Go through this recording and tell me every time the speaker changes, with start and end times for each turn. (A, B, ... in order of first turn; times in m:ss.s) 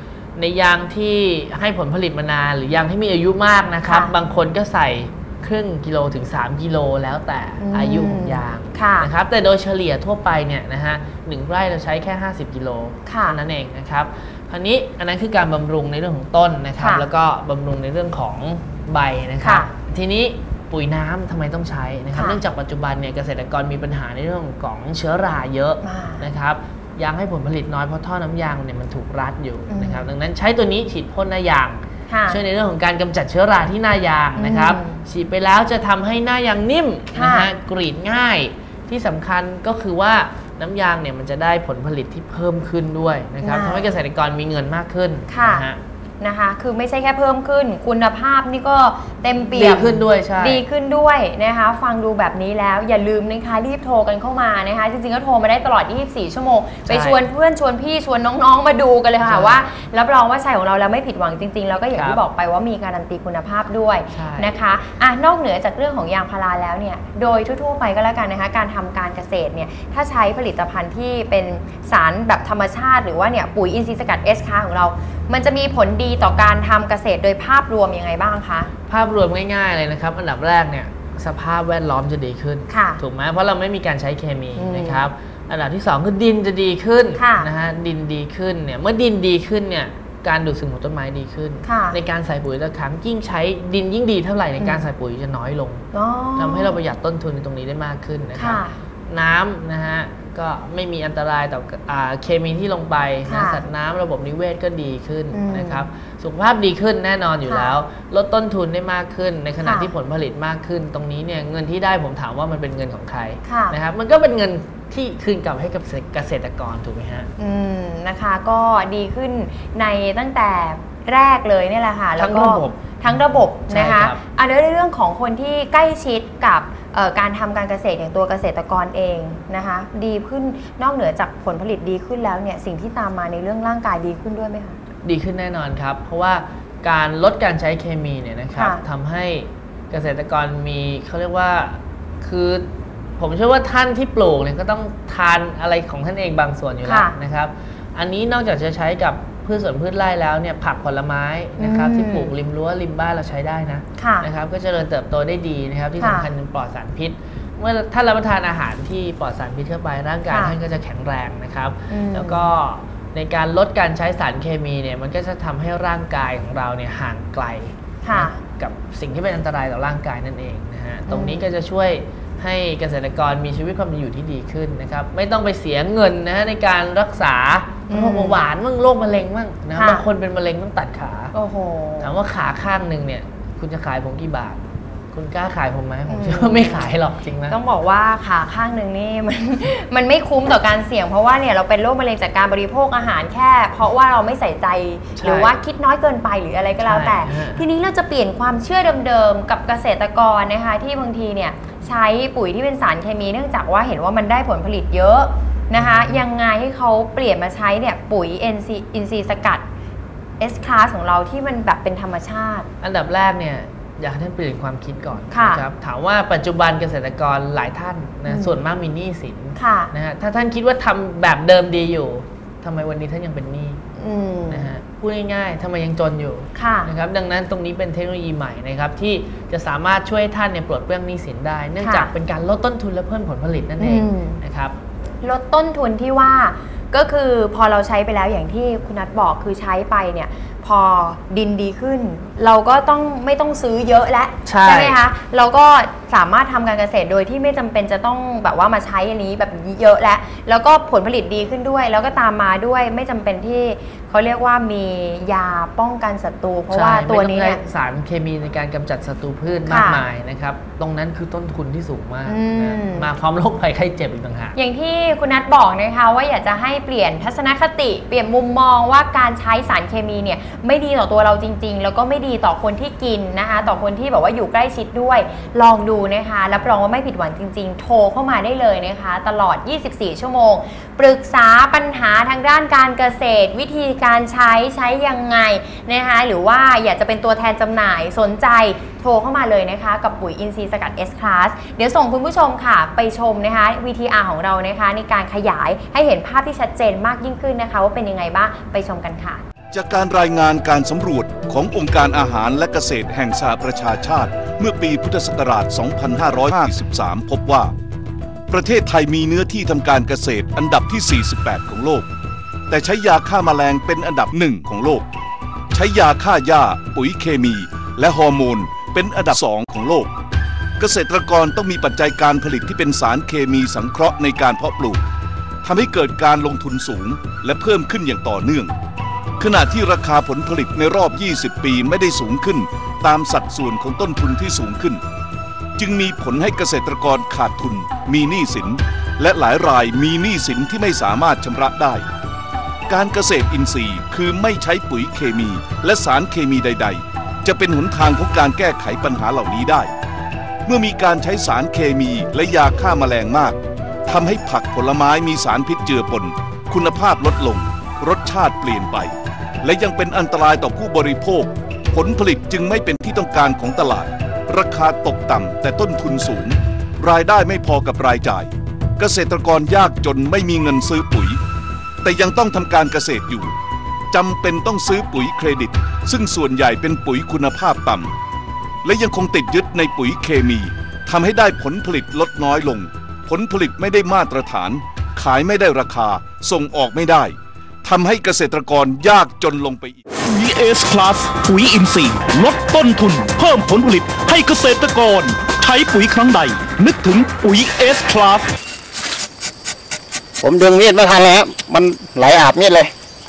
0:00.4-0:45.8 A
0:03.8-0:04.1 B
0:07.6-0:09.1 B
0:13.1-0:13.4 B
0:16.8-0:17.1 B
0:19.4-0:19.7 B
0:22.1-0:22.4 B
0:25.8-0:26.3 B
0:29.7-0:30.1 B
0:32.1-0:32.4 B
0:34.4-0:35.0 B
0:37.1-0:37.5 B
0:43.4-0:43.9 B
0:45.3-0:45.7 B
0:46.2-1:18.7 B
0:49.5-0:50.6 A
0:56.9-0:57.2 A
0:59.2-0:59.7 A
1:01.9-1:02.2 A
1:04.1-1:04.6 A
1:18.9-1:57.3 A
1:22.7-1:23.0 B
1:24.6-1:25.1 B
1:27.2-1:27.5 B
1:31.6-1:32.0 B
1:34.6-1:34.8 B
1:35.9-1:36.8 B
1:38.4-1:38.8 B
1:43.3-1:43.6 B
1:45.3-1:45.8 B
1:47.5-1:47.8 B
1:49.6-1:49.9 B
1:53.4-1:53.8 B
1:57.4-2:14.8 B
2:02.2-2:04.2 A
2:15.0-2:22.7 A
2:18.6-2:18.8 B
2:23.2-3:01.3 A
2:26.8-2:27.2 B
2:31.6-2:32.3 B
2:34.0-2:34.3 B
2:36.0-2:36.3 B
2:40.3-2:40.6 B
2:41.9-2:42.5 B
2:48.0-2:48.4 B
2:51.1-2:51.4 B
2:57.9-2:58.4 B
2:59.8-3:00.0 B
3:01.3-3:02.2 B
3:02.0-3:07.6 A
3:06.1-3:06.9 B
3:07.5-3:29.7 B
3:15.2-3:15.5 A
3:16.8-3:17.6 A
3:25.7-3:26.2 A
3:30.4-3:32.7 B
3:32.8-3:43.8 A
3:35.3-3:35.6 B
3:38.3-3:38.6 B
3:39.6-3:39.9 B
3:44.0-3:44.7 B
3:44.5-3:54.8 A
3:46.6-3:46.9 B
3:51.8-3:52.1 B
3:53.8-3:54.4 B
3:55.2-4:17.6 B
4:04.4-4:05.0 A
4:16.7-4:24.6 A
4:19.7-4:20.0 B
4:22.3-4:23.1 B
4:24.6-4:59.4 B
4:59.7-5:07.7 C
5:08.5-5:12.1 C
5:12.7-5:15.1 C
5:15.7-5:20.1 C
5:20.8-5:25.0 C
5:25.6-5:28.7 C
5:29.4-5:35.0 C
5:35.8-5:42.0 C
5:42.9-5:49.9 C
5:50.7-5:53.6 C
5:54.1-5:59.1 C
5:59.6-6:11.4 C
6:12.0-6:13.5 C
6:14.1-6:18.1 C
6:18.8-6:30.0 C
6:30.2-6:38.5 D
6:40.4-6:42.9 E